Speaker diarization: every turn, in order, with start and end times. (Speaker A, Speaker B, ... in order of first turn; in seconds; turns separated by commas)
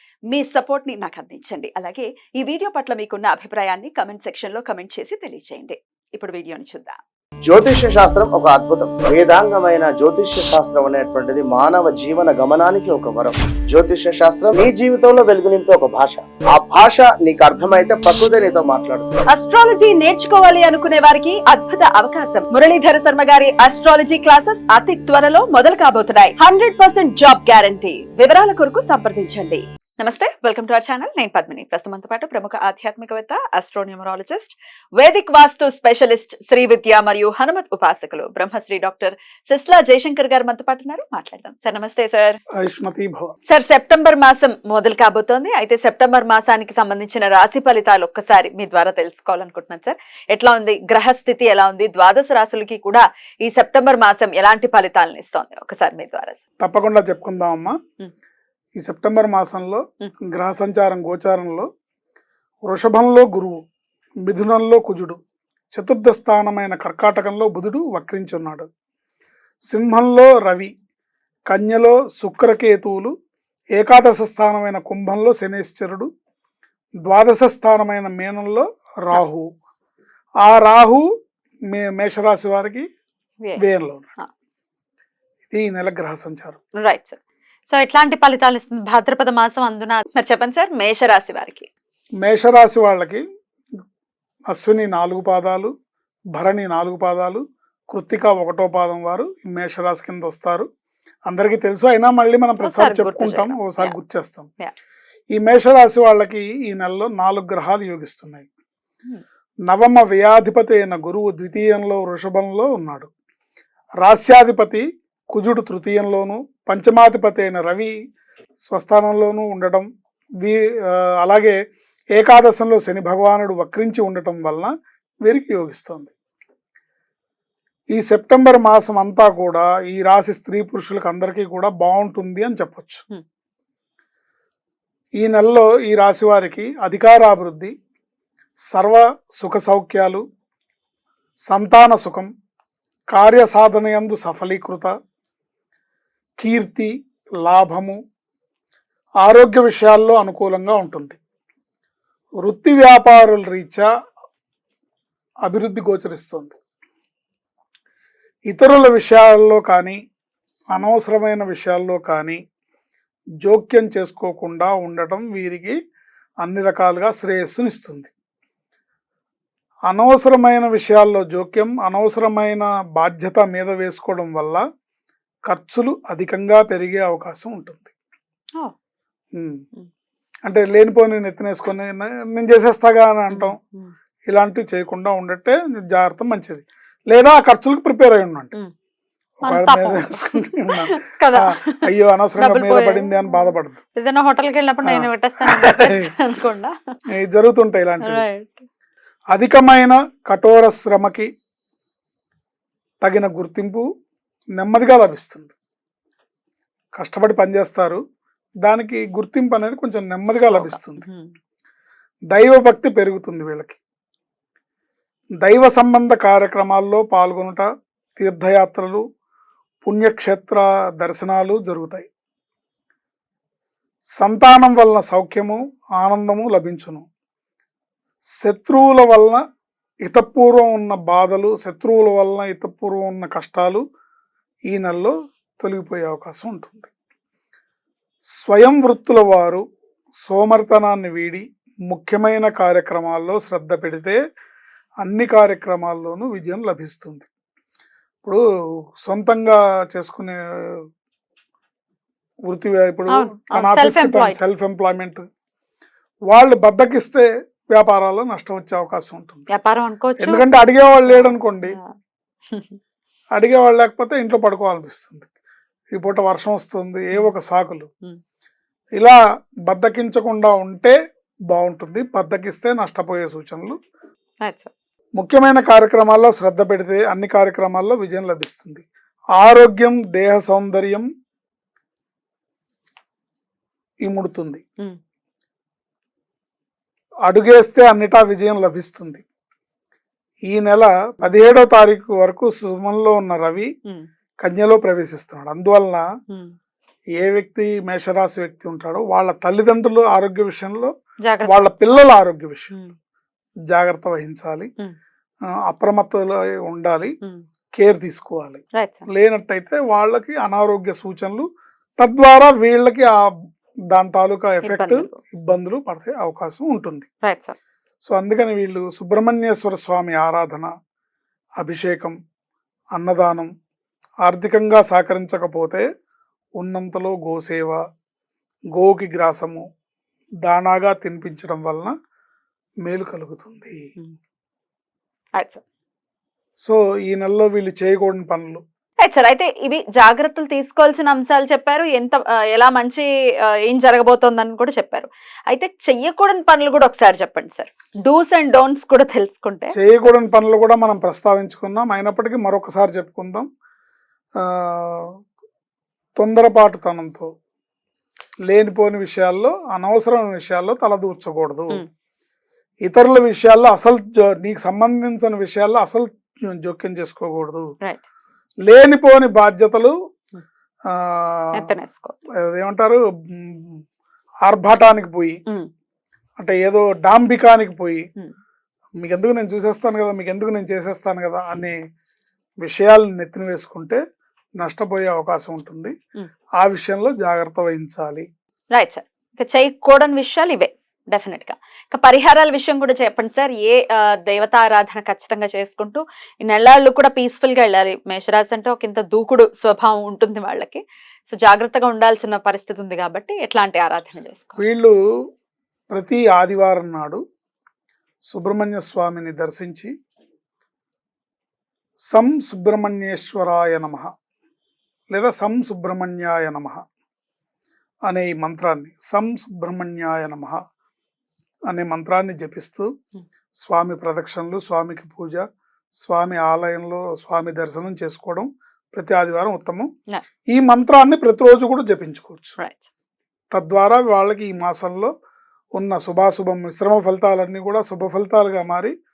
Speaker A: 0.3-7.0, Speaker B: 7.5-19.2, Speaker A: 19.3-42.4, Speaker C: 42.6-43.3, Speaker A: 43.5-56.4, Speaker C: 56.6-57.8, Speaker C: 58.8-61.7, Speaker C: 62.6-63.6, Speaker C: 64.2-65.2, Speaker C: 65.7-68.7, Speaker C: 69.7-70.7, Speaker C: 71.5-73.1, Speaker C: 73.7-76.1, Speaker C: 77.0-79.5, Speaker C: 80.4-81.0, Speaker C: 81.7-82.9, Speaker C: 83.6-84.1, Speaker C: 85.5-86.6, Speaker A: 86.8-87.2, Speaker A: 87.7-91.7, Speaker C: 92.2-93.2, Speaker C: 94.5-95.7, Speaker C: 96.3-100.7, Speaker C: 101.3-104.5, Speaker A: 102.6-104.0, Speaker C: 105.3-108.5, Speaker C: 109.7-113.1, Speaker C: 114.0-117.9, Speaker C: 118.7-119.8, Speaker C: 120.4-121.6, Speaker C: 122.1-124.7, Speaker C: 125.2-126.1, Speaker C: 127.9-133.0, Speaker C: 135.2-137.7, Speaker C: 138.7-140.2, Speaker C: 141.5-142.3, Speaker C: 143.1-144.9, Speaker C: 146.4-148.0, Speaker C: 149.2-151.2, Speaker C: 152.4-153.9, Speaker C: 155.4-156.6, Speaker C: 158.5-160.0, Speaker C: 160.7-162.4, Speaker C: 163.4-165.8, Speaker C: 166.4-168.1, Speaker C: 169.9-174.6, Speaker C: 175.5-177.9, Speaker C: 179.3-179.6, Speaker C: 180.4-183.6, Speaker A: 183.3-183.9, Speaker C: 184.3-188.5, Speaker C: 189.4-193.8, Speaker A: 189.4-191.8, Speaker A: 192.4-196.7, Speaker C: 194.8-196.1, Speaker C: 197.1-198.2, Speaker A: 198.1-198.6, Speaker C: 199.3-201.3, Speaker C: 203.0-203.8, Speaker C: 204.6-205.5, Speaker C: 206.9-208.0, Speaker C: 208.6-211.0, Speaker A: 210.4-211.3, Speaker C: 212.3-213.8, Speaker C: 215.4-219.0, Speaker C: 219.8-222.1, Speaker C: 224.2-227.1, Speaker C: 228.4-229.4, Speaker C: 230.0-233.8, Speaker C: 234.7-236.9, Speaker C: 238.4-239.6, Speaker C: 240.2-244.2, Speaker C: 245.0-247.3, Speaker C: 249.0-250.8, Speaker C: 252.5-255.2, Speaker A: 253.1-254.4, Speaker C: 256.3-259.5, Speaker A: 259.5-260.4, Speaker C: 260.2-261.8, Speaker A: 261.1-261.9, Speaker A: 262.5-262.8, Speaker C: 263.3-265.3, Speaker C: 265.9-267.9, Speaker C: 269.0-270.9, Speaker C: 271.5-273.8, Speaker A: 274.4-274.7, Speaker C: 275.2-278.8, Speaker C: 279.4-281.1, Speaker C: 284.0-284.6, Speaker C: 287.2-289.2, Speaker C: 290.5-293.7, Speaker C: 294.4-296.1, Speaker A: 296.3-296.5, Speaker C: 297.2-300.9, Speaker A: 301.2-301.9, Speaker C: 301.4-302.7, Speaker C: 303.7-304.7, Speaker C: 305.6-307.1, Speaker C: 307.7-311.4, Speaker A: 308.7-309.1, Speaker C: 312.0-313.2, Speaker C: 313.9-317.1, Speaker A: 314.6-315.2, Speaker A: 317.2-317.6, Speaker C: 318.0-320.7, Speaker C: 321.6-322.1, Speaker C: 322.9-323.5, Speaker C: 324.2-325.8, Speaker C: 326.6-327.8, Speaker C: 328.7-329.6, Speaker C: 330.4-331.9, Speaker C: 332.8-333.8, Speaker A: 335.4-335.6, Speaker C: 336.6-338.6, Speaker A: 339.0-349.7, Speaker C: 349.7-353.5, Speaker C: 354.4-355.1, Speaker C: 356.2-357.3, Speaker C: 358.5-361.8, Speaker C: 362.8-367.6, Speaker C: 368.6-369.9, Speaker C: 370.9-371.7, Speaker A: 371.6-372.1, Speaker C: 372.4-373.8, Speaker C: 374.4-375.4, Speaker C: 376.4-378.0, Speaker C: 379.0-381.8, Speaker C: 382.6-384.0, Speaker C: 384.6-385.9, Speaker C: 386.6-388.2, Speaker A: 388.7-404.6, Speaker C: 404.6-404.9, Speaker C: 405.9-407.2, Speaker C: 408.3-409.9, Speaker C: 412.1-414.1, Speaker C: 415.1-416.8, Speaker C: 418.1-420.6, Speaker C: 421.7-422.9, Speaker C: 423.6-425.4, Speaker C: 426.0-429.9, Speaker C: 430.5-432.6, Speaker A: 432.6-432.9, Speaker C: 433.5-435.1, Speaker C: 435.7-438.9